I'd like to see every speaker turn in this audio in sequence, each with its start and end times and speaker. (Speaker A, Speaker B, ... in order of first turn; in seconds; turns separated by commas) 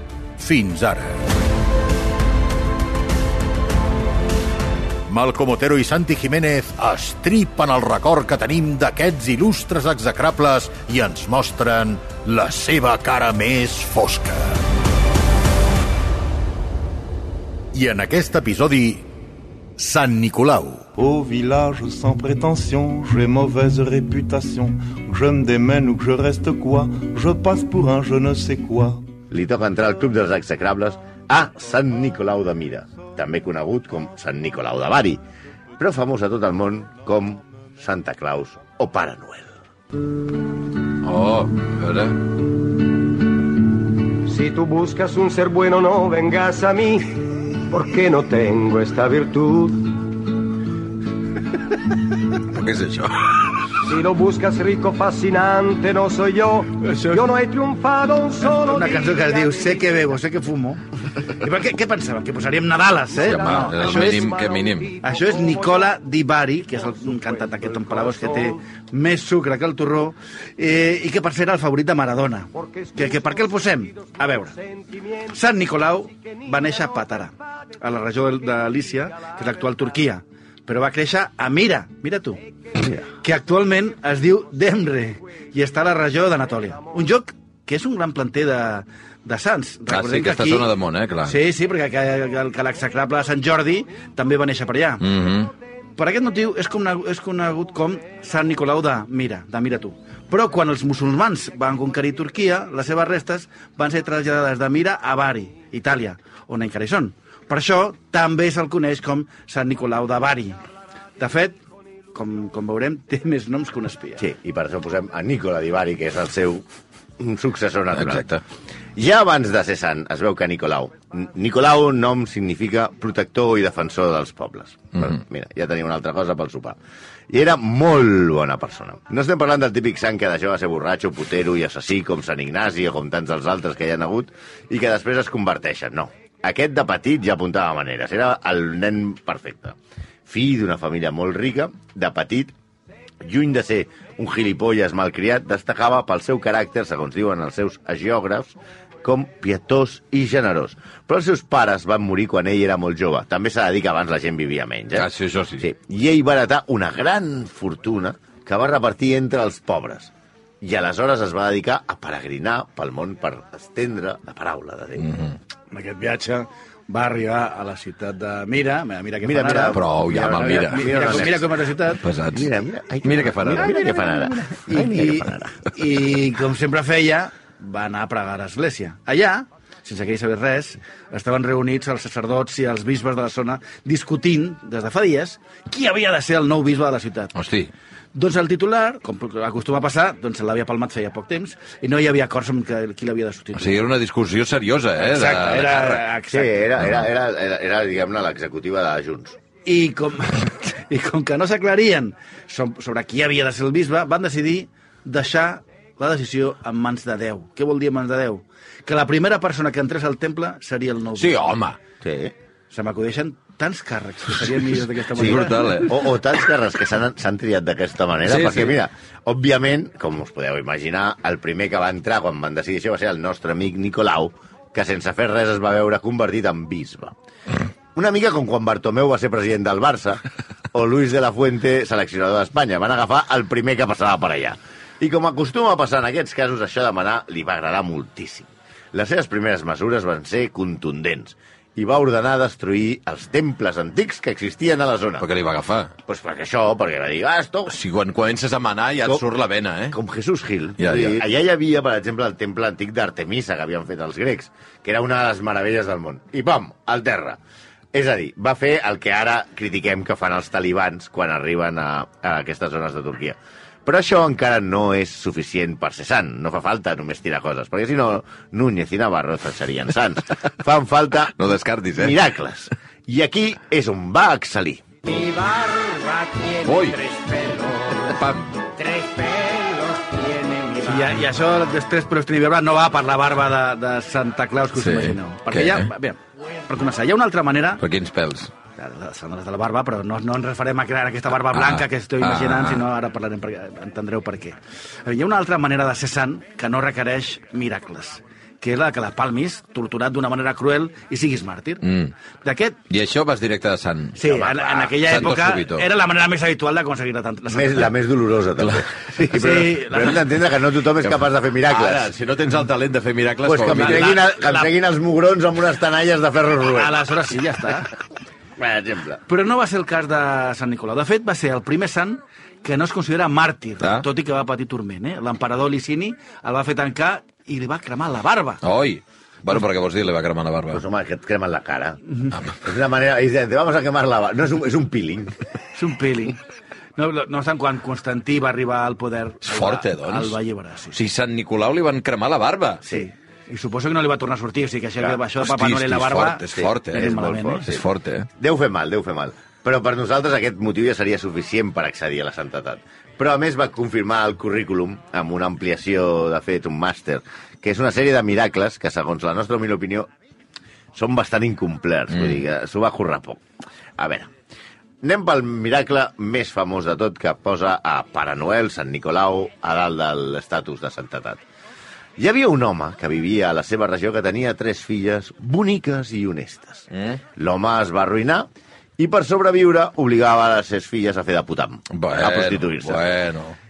Speaker A: 0.4-1.2, Speaker A: 5.1-14.6, Speaker A: 17.7-19.0, Speaker A: 19.8-20.9, Speaker B: 21.0-29.2, Speaker C: 29.3-35.2, Speaker C: 35.8-39.6, Speaker D: 41.0-42.2, Speaker E: 44.2-50.0, Speaker D: 52.4-53.6, Speaker E: 53.8-59.9, Speaker F: 56.9-57.2, Speaker F: 58.5-60.8, Speaker F: 61.4-64.3, Speaker E: 63.2-65.9, Speaker D: 63.2-65.0, Speaker F: 65.0-74.5, Speaker E: 66.8-68.6, Speaker E: 72.6-73.5, Speaker F: 75.3-82.4, Speaker F: 83.2-90.7, Speaker D: 89.9-91.4, Speaker F: 91.2-95.1, Speaker D: 95.0-95.5, Speaker F: 96.0-110.6, Speaker F: 111.2-111.6, Speaker F: 112.1-114.2, Speaker C: 114.2-116.7, Speaker C: 117.2-118.3, Speaker D: 118.0-118.4, Speaker C: 119.0-126.8, Speaker C: 127.3-142.5, Speaker C: 143.2-165.1, Speaker D: 155.0-155.6, Speaker D: 165.0-165.4, Speaker F: 165.7-169.8, Speaker C: 169.2-171.5, Speaker D: 169.7-171.4, Speaker F: 170.4-172.0, Speaker D: 172.0-173.8, Speaker C: 172.3-175.7, Speaker F: 173.6-187.3, Speaker D: 187.3-187.7, Speaker F: 188.1-193.8, Speaker D: 193.6-196.0, Speaker F: 195.0-196.7, Speaker C: 196.3-199.4, Speaker F: 199.7-211.6, Speaker D: 211.2-211.8, Speaker C: 212.0-212.3, Speaker F: 212.7-215.9, Speaker D: 215.2-215.9, Speaker C: 215.2-227.2, Speaker D: 218.3-218.8, Speaker C: 227.9-230.2, Speaker C: 230.7-245.3, Speaker D: 245.2-245.9, Speaker C: 246.1-247.8, Speaker D: 247.7-250.0, Speaker C: 249.9-257.4, Speaker D: 250.8-251.2, Speaker C: 257.9-271.4, Speaker D: 271.4-272.2, Speaker C: 272.0-275.0, Speaker D: 276.6-277.0, Speaker F: 277.2-277.9, Speaker D: 278.1-278.6, Speaker F: 280.5-287.8, Speaker D: 284.8-285.9, Speaker D: 287.8-288.5, Speaker F: 288.8-301.9, Speaker D: 291.5-292.8, Speaker D: 301.8-302.1, Speaker F: 302.4-302.8, Speaker D: 302.9-305.9, Speaker F: 304.2-307.9, Speaker C: 304.3-304.7, Speaker C: 307.5-312.1, Speaker D: 308.6-308.9, Speaker F: 309.3-310.2, Speaker D: 311.7-314.2, Speaker C: 313.4-317.0, Speaker F: 313.7-314.7, Speaker F: 316.7-317.9, Speaker C: 318.6-319.2, Speaker F: 319.3-328.6, Speaker D: 328.6-330.8, Speaker C: 330.7-332.0, Speaker C: 332.6-335.4, Speaker F: 335.8-336.4, Speaker F: 337.0-341.0, Speaker D: 339.4-340.3, Speaker D: 340.9-342.8, Speaker F: 342.9-347.8, Speaker D: 345.4-348.3, Speaker C: 346.6-347.8, Speaker C: 348.4-360.1, Speaker C: 360.9-363.4, Speaker C: 364.0-364.3, Speaker C: 365.0-371.4, Speaker C: 372.2-383.1, Speaker D: 376.9-377.2, Speaker D: 381.9-383.6